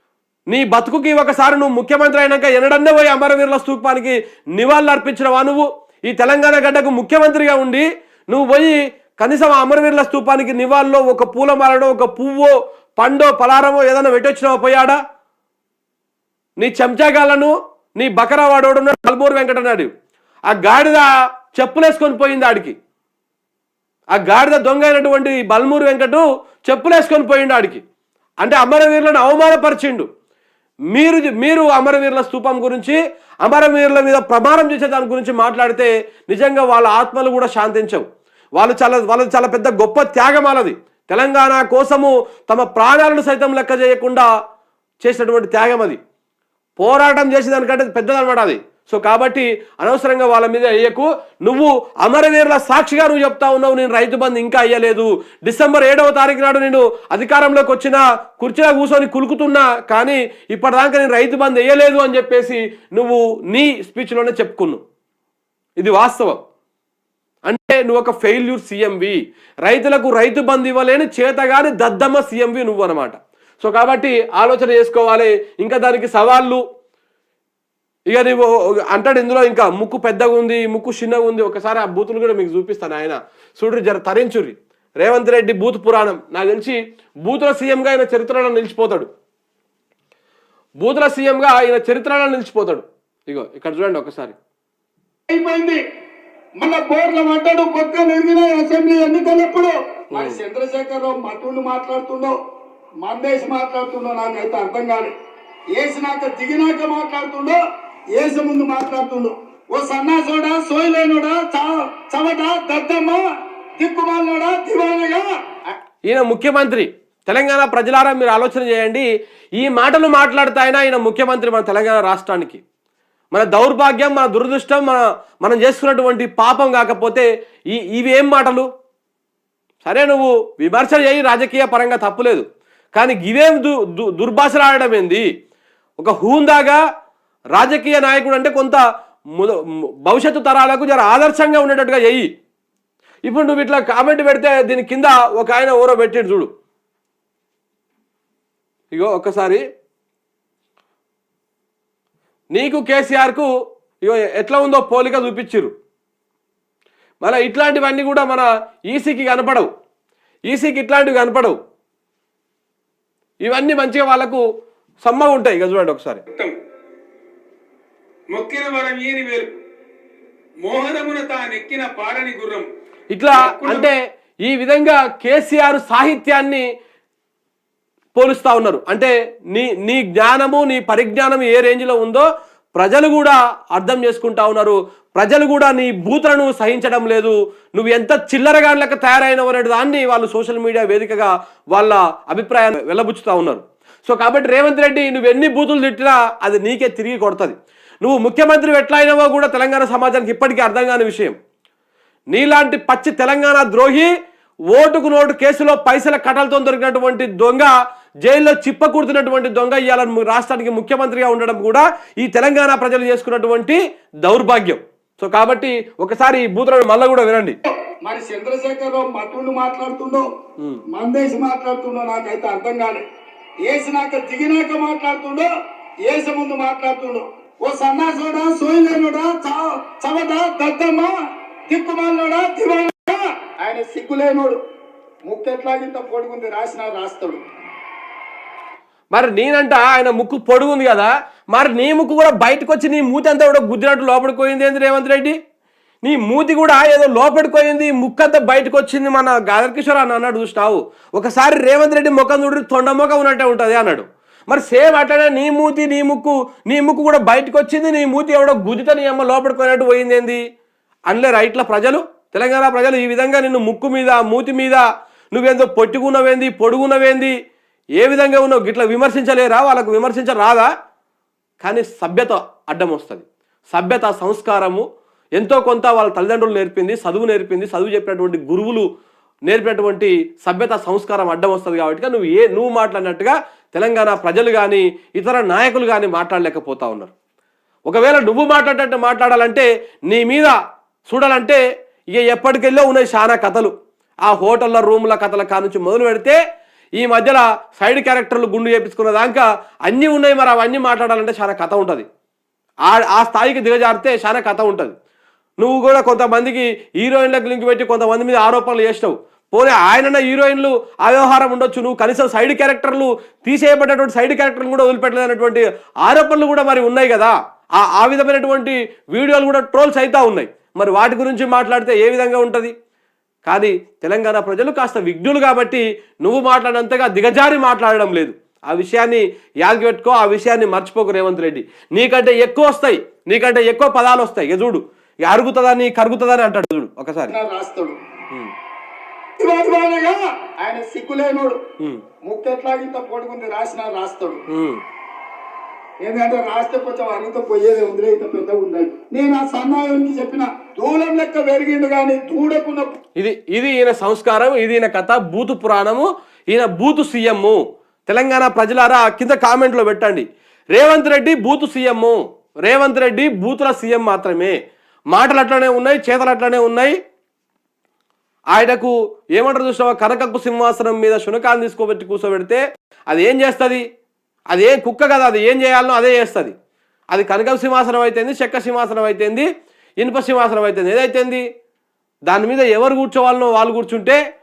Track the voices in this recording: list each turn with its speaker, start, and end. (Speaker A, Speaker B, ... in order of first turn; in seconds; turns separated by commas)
Speaker A: 0.5-15.0, Speaker A: 16.6-19.9, Speaker A: 20.5-22.7, Speaker A: 24.1-27.8, Speaker A: 28.4-30.1, Speaker A: 30.9-38.0, Speaker A: 38.6-44.3, Speaker A: 45.0-46.0, Speaker A: 46.8-64.8, Speaker A: 65.8-66.4, Speaker A: 67.5-76.6, Speaker A: 78.1-89.1, Speaker A: 90.8-94.3, Speaker B: 95.3-95.8, Speaker B: 96.6-102.3, Speaker A: 100.1-100.4, Speaker B: 103.0-105.1, Speaker B: 105.8-107.6, Speaker B: 108.1-113.2, Speaker B: 113.8-115.3, Speaker A: 116.1-122.6, Speaker A: 123.3-128.7, Speaker A: 129.8-132.4, Speaker A: 132.9-135.2, Speaker A: 136.0-136.8, Speaker A: 137.6-138.8, Speaker A: 139.3-142.3, Speaker A: 143.2-146.5, Speaker A: 148.9-149.6, Speaker A: 152.5-153.5, Speaker A: 154.0-155.7, Speaker A: 157.2-159.7, Speaker A: 160.5-161.6, Speaker A: 163.4-164.4, Speaker A: 165.0-166.2, Speaker C: 166.3-166.5, Speaker C: 168.3-169.6, Speaker C: 170.6-172.7, Speaker A: 173.1-176.6, Speaker C: 173.4-173.9, Speaker A: 178.1-201.3, Speaker A: 202.3-204.1, Speaker A: 204.7-207.7, Speaker A: 208.2-217.6, Speaker B: 218.0-220.2, Speaker B: 220.9-223.0, Speaker B: 223.6-225.5, Speaker B: 226.0-231.1, Speaker B: 231.7-234.6, Speaker B: 235.2-237.4, Speaker A: 239.1-245.4, Speaker A: 246.0-260.4, Speaker A: 261.1-267.3, Speaker A: 268.0-270.7, Speaker A: 271.6-274.8, Speaker A: 275.4-278.9, Speaker A: 279.5-287.1, Speaker A: 287.9-290.6, Speaker A: 291.1-291.6, Speaker A: 292.1-293.7, Speaker A: 294.3-296.4, Speaker A: 297.0-302.1, Speaker A: 302.9-304.9, Speaker A: 305.6-322.7, Speaker A: 323.4-337.3, Speaker B: 337.3-337.9, Speaker B: 339.4-341.6, Speaker B: 342.2-344.4, Speaker A: 344.5-344.8, Speaker B: 346.0-352.9, Speaker A: 353.2-364.6, Speaker A: 365.1-367.0, Speaker A: 368.5-373.8, Speaker A: 374.5-376.5, Speaker A: 377.1-379.5, Speaker A: 380.0-381.4, Speaker A: 382.3-384.2